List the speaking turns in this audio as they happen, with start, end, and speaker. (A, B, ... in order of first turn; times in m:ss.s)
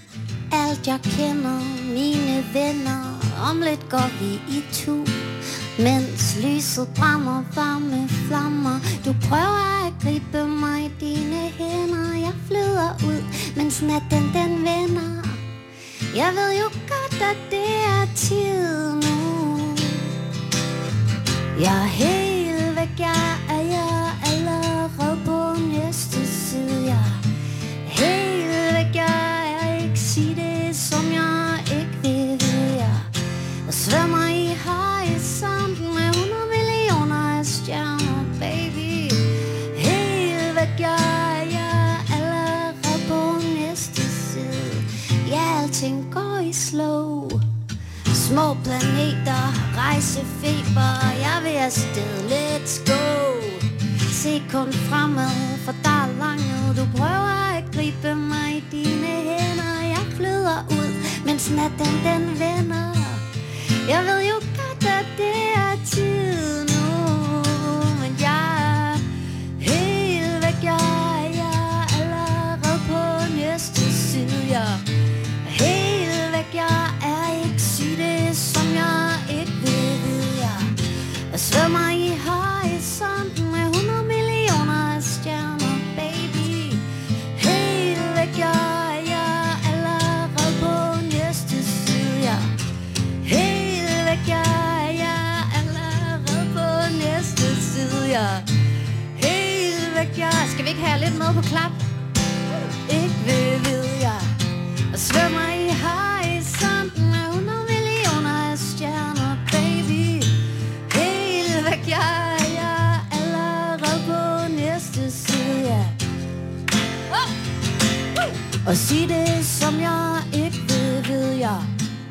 0:00.5-0:15.4 A
0:16.1-0:20.1 A
0:21.5-0:27.2 A
0:27.8-0:33.1 A
0:33.6-0:47.4 A
0:48.1-1:03.2 A
1:03.8-1:09.0 A
1:09.6-1:14.8 A
1:15.4-1:20.7 A
1:21.3-1:32.5 A
1:33.2-1:38.4 A
1:39.1-1:41.8 A
1:42.8-1:44.2 A
1:44.9-1:56.0 A
1:58.6-2:01.7 A